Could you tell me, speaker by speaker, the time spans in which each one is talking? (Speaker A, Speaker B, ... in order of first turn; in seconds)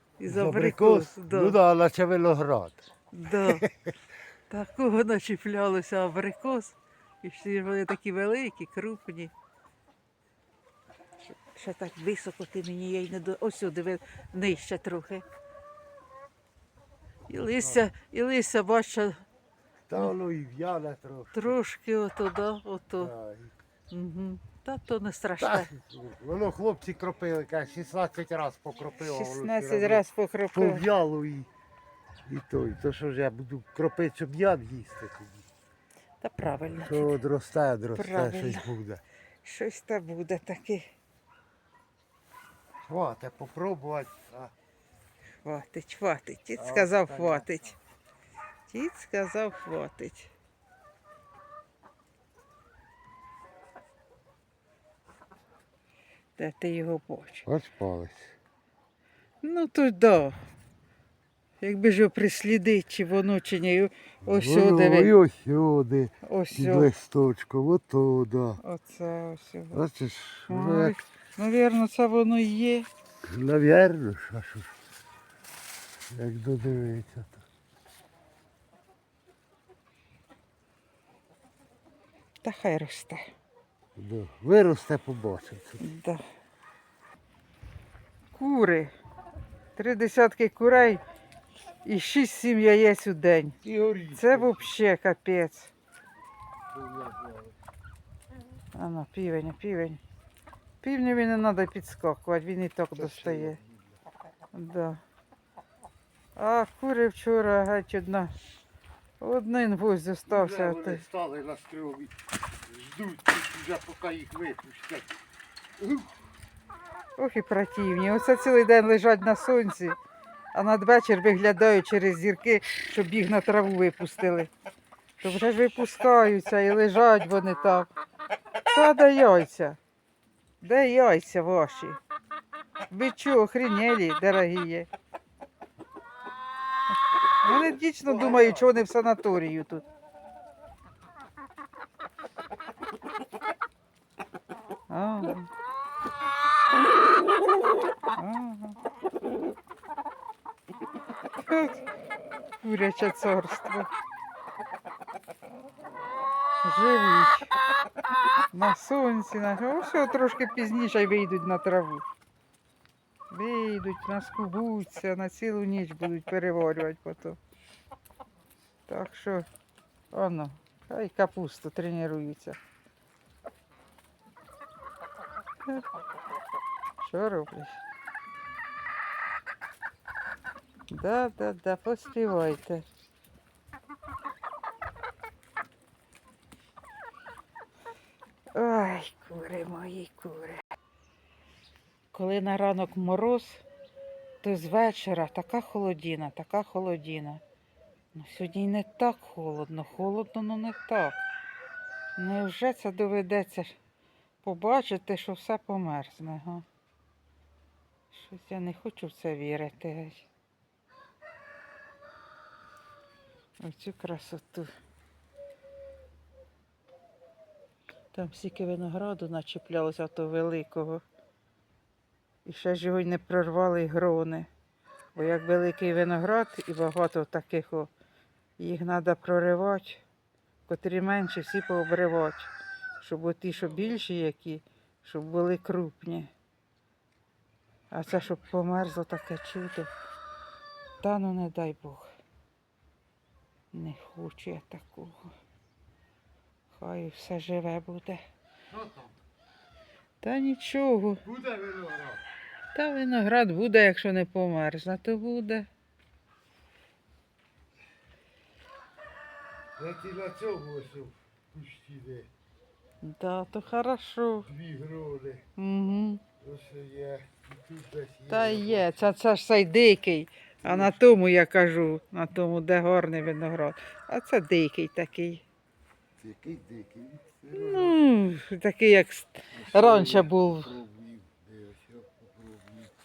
Speaker A: 0.2-1.6, 3.1-3.7, 4.5-9.3, 11.2-15.2, 17.3-19.2, 21.3-23.1, 23.9-25.7, 29.0-30.8, 36.2-37.2, 38.0-38.7, 39.4-40.9, 45.4-47.8, 48.7-50.3, 56.4-57.5, 59.4-60.4, 61.6-65.1, 66.2-66.9, 68.6-69.8, 70.5-72.9, 82.4-83.2, 85.8-86.2, 88.3-88.9, 89.8-91.0, 91.8-93.6, 94.1-95.7, 98.8-100.0, 100.8-103.6, 104.5-105.0, 106.4-108.3, 109.2-111.0, 117.2-120.0, 120.5-124.5, 125.2-127.9, 128.7-129.8, 130.6-132.0, 132.9-134.9, 137.4-139.8, 144.9-145.5, 148.2-148.8, 151.4-151.8, 152.6-153.9, 156.6-157.5, 158.5-162.1, 163.3-167.4, 168.9-169.5, 170.1-172.6, 177.0-177.8, 180.9-182.9, 188.5-190.6, 192.1-193.6, 194.4-197.4, 198.1-201.2, 202.2-203.8, 204.4-206.6, 208.1-210.2, 213.6-214.7, 218.1-221.0, 222.4-224.5, 225.2-227.9, 228.6-230.0, 230.7-236.3, 237.9-239.9, 241.0-242.1, 243.7-245.3, 246.7-248.2, 250.2-251.2, 252.7-255.7, 263.0-264.5, 265.6-266.2, 268.3-275.4, 277.5-280.7
Speaker B: 0.2-3.9, 17.3-17.9, 19.9-21.6, 23.0-23.6, 25.4-31.5, 32.3-35.5, 36.7-39.0, 42.8-44.5, 46.6-47.5, 57.5-58.3, 64.2-68.6, 69.7-71.0, 73.2-74.8, 76.1-77.5, 84.0-85.8, 93.6-94.7, 96.7-97.6, 103.0-103.8, 110.3-115.2, 115.8-116.2, 138.1-138.8, 248.7-249.2, 251.2-252.2, 259.8-262.3, 264.4-265.4, 266.4-269.1, 270.6-271.0, 276.2-278.0, 279.5-282.9